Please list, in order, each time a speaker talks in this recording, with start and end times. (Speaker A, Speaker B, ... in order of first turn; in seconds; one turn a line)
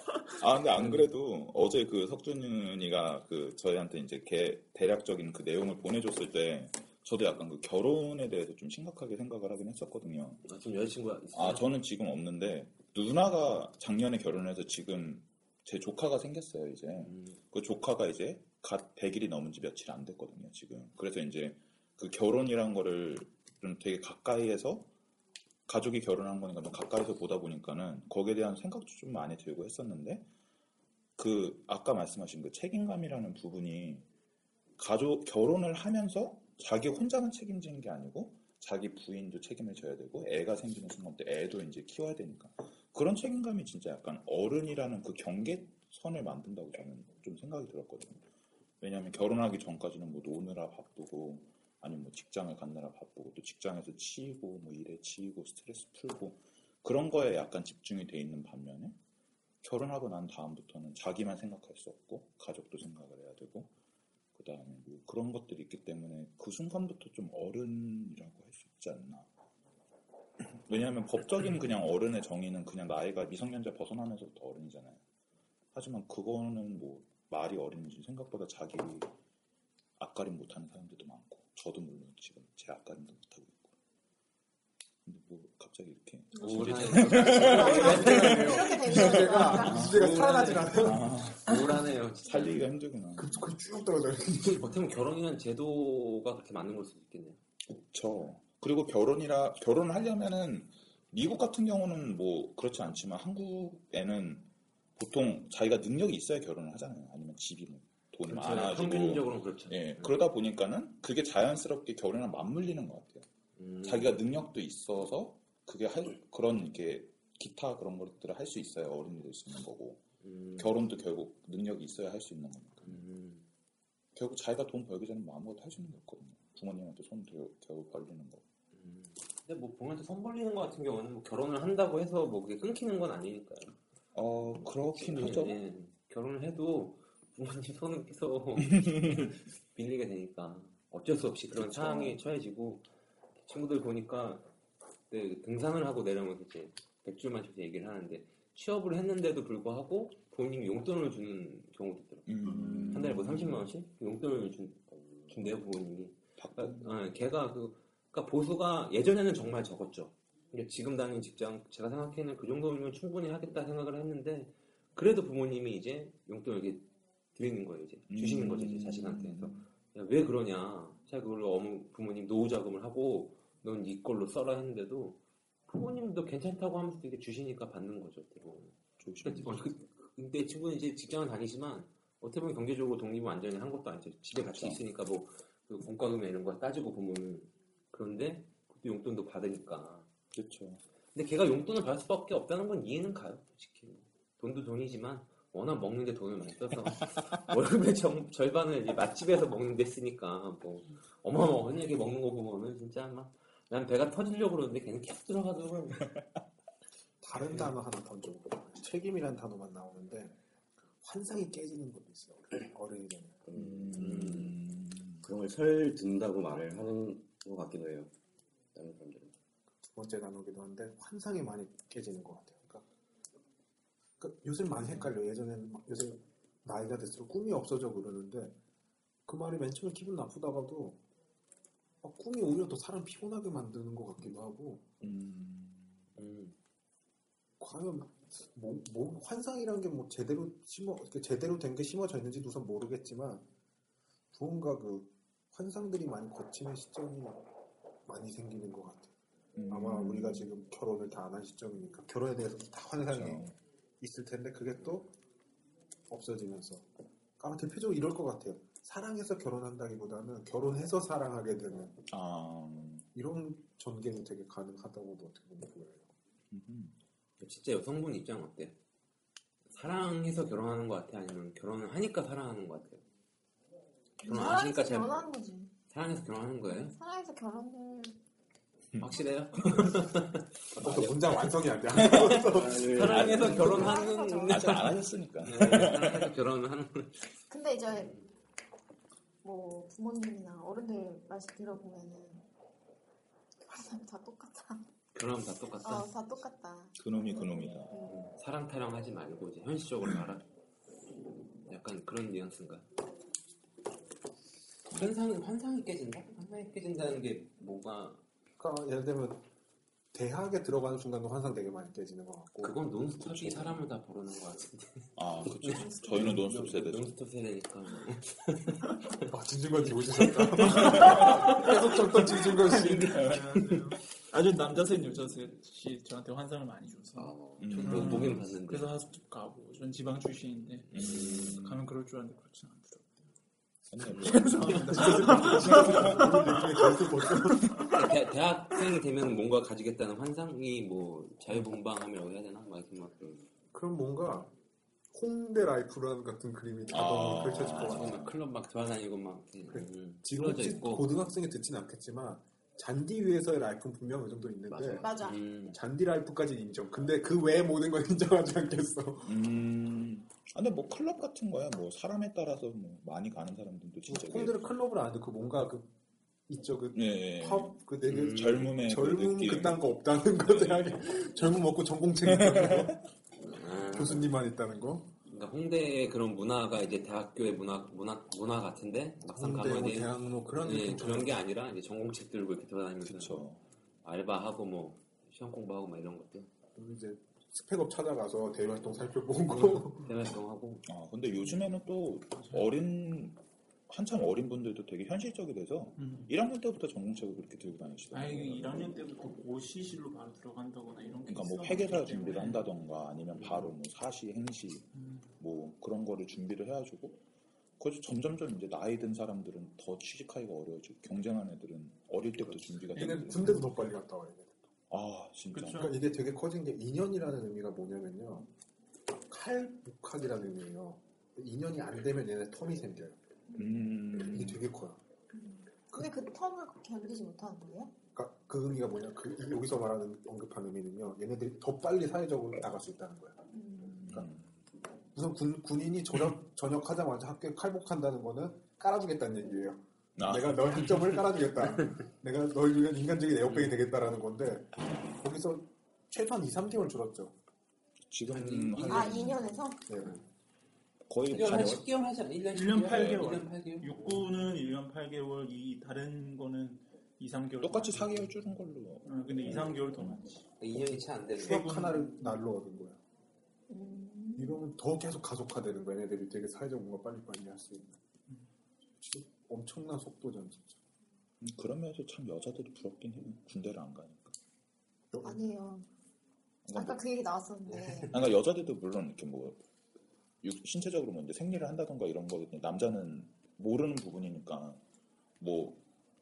Speaker A: 0.3-10.4
Speaker B: 0.8-1.1
Speaker B: 10.4-11.7
Speaker A: 11.3-24.9
Speaker B: 17.1-17.4
Speaker A: 25.7-30.3
Speaker A: 31.2-34.1
Speaker A: 34.8-48.2
Speaker A: 48.8-59.0
Speaker A: 59.6-63.7
Speaker A: 64.3-69.3
Speaker A: 70.4-75.0
Speaker A: 75.7-79.1
Speaker A: 80.0-83.7
Speaker A: 85.1-90.1
Speaker B: 86.4-88.8
Speaker C: 86.4-90.0
Speaker D: 87.4-91.1
Speaker B: 89.6-90.9
Speaker A: 90.7-91.7
Speaker B: 91.4-92.7
Speaker A: 92.2-93.5
Speaker D: 93.2-94.7
Speaker B: 94.5-97.4
Speaker A: 97.7-113.3
Speaker B: 108.3-110.3
Speaker B: 113.6-114.2
Speaker A: 113.8-120.0
Speaker B: 120.2-120.7
Speaker A: 120.6-123.0
Speaker B: 122.8-123.5
Speaker A: 124.2-128.4
Speaker B: 128.7-133.8
Speaker A: 134.2-135.6
Speaker B: 134.9-142.8
Speaker A: 138.8-139.2
Speaker A: 141.5-142.2
Speaker B: 143.4-144.5
Speaker B: 145.1-190.1
Speaker A: 152.3-153.6
Speaker E: 154.9-155.3
Speaker A: 156.4-156.9
Speaker A: 168.1-169.7
Speaker A: 179.0-179.7
Speaker A: 184.4-184.8
Speaker A: 190.3-190.8
Speaker B: 191.1-206.1
Speaker D: 207.2-213.4
Speaker E: 213.5-214.6
Speaker A: 213.5-215.2
Speaker E: 215.2-218.1
Speaker E: 218.7-219.3
Speaker D: 219.9-222.8
Speaker D: 224.2-228.6
Speaker D: 229.3-231.0
Speaker D: 232.0-234.9
Speaker A: 235.0-236.0
Speaker B: 236.2-236.6
Speaker D: 237.6-243.5
Speaker D: 244.3-247.4
Speaker D: 248.1-249.1
Speaker A: 249.6-250.1
Speaker D: 249.7-255.1
Speaker C: 250.0-250.4
Speaker A: 253.1-253.6
Speaker D: 256.1-256.9
Speaker D: 257.4-262.0
Speaker A: 262.1-263.1
Speaker D: 263.1-266.1
Speaker A: 266.5-266.9
Speaker B: 267.4-268.8
Speaker B: 269.7-273.0
Speaker C: 274.2-275.7
Speaker B: 274.2-275.3
Speaker B: 275.9-276.9
Speaker C: 276.7-278.2
Speaker B: 279.0-281.4
Speaker D: 280.8-282.9
Speaker B: 282.0-287.3
Speaker E: 282.1-284.0
Speaker C: 283.3-284.9
Speaker A: 284.5-286.3
Speaker C: 287.5-288.2
Speaker C: 289.4-292.5
Speaker C: 293.6-294.9
Speaker B: 295.1-296.1
Speaker C: 295.8-297.0
Speaker A: 297.0-297.9
Speaker C: 297.9-298.3
Speaker B: 298.1-300.4
Speaker B: 301.7-302.9
Speaker B: 304.9-308.2
Speaker D: 308.6-309.4
Speaker D: 310.1-312.8
Speaker B: 312.6-319.2
Speaker A: 313.3-313.8
Speaker A: 315.2-317.2
Speaker D: 319.3-323.1
Speaker B: 320.2-321.7
Speaker A: 320.8-321.3
Speaker B: 322.6-323.9
Speaker F: 322.7-333.2
Speaker B: 327.2-328.9
Speaker A: 327.6-328.4
Speaker B: 330.9-331.6
Speaker A: 330.9-331.8
Speaker A: 333.9-336.2
Speaker F: 334.1-338.0
Speaker D: 334.6-337.7
Speaker B: 334.6-335.8
Speaker B: 337.9-343.4
Speaker D: 343.7-344.5
Speaker D: 345.1-348.2
Speaker A: 346.9-348.3
Speaker B: 347.7-351.1
Speaker D: 349.7-355.1
Speaker B: 354.8-355.8
Speaker C: 354.9-355.4
Speaker D: 355.7-359.4
Speaker A: 359.2-364.6
Speaker D: 364.1-365.9
Speaker D: 366.5-373.0
Speaker A: 366.9-369.8
Speaker B: 368.1-368.7
Speaker A: 372.4-372.9
Speaker B: 373.5-374.3
Speaker D: 373.9-375.1
Speaker B: 375.3-383.4
Speaker D: 379.2-381.4
Speaker A: 383.1-383.6
Speaker B: 384.0-386.5
Speaker D: 386.8-390.1
Speaker B: 389.5-390.9
Speaker A: 390.9-393.4
Speaker A: 393.9-399.0
Speaker F: 396.0-396.3
Speaker F: 398.1-402.7
Speaker A: 401.3-407.2
Speaker F: 405.0-405.3
Speaker A: 407.8-413.7
Speaker D: 412.9-414.7
Speaker A: 414.9-416.0
Speaker F: 415.5-415.9
Speaker D: 415.7-418.5
Speaker D: 419.3-423.2
Speaker A: 423.6-424.6
Speaker D: 424.2-425.0
Speaker C: 425.3-427.9
Speaker D: 428.1-433.4
Speaker C: 433.5-434.1
Speaker D: 434.0-434.3
Speaker A: 434.0-434.5
Speaker D: 435.1-447.3
Speaker A: 440.2-440.8
Speaker A: 448.1-449.6
Speaker B: 448.3-449.4
Speaker C: 448.9-449.9
Speaker D: 449.9-450.1
Speaker A: 451.1-451.9
Speaker B: 451.3-454.3
Speaker F: 452.5-458.3
Speaker A: 452.9-453.4
Speaker A: 457.6-460.2
Speaker F: 459.1-460.4
Speaker B: 460.6-461.7
Speaker D: 461.4-463.0
Speaker F: 461.4-462.4
Speaker C: 463.7-464.6
Speaker D: 464.4-468.0
Speaker D: 469.0-470.8
Speaker A: 471.4-474.4
Speaker D: 475.1-475.4
Speaker C: 475.2-475.9
Speaker A: 476.6-477.0
Speaker C: 476.7-478.2
Speaker A: 478.1-479.6
Speaker A: 480.4-484.8
Speaker A: 485.4-485.8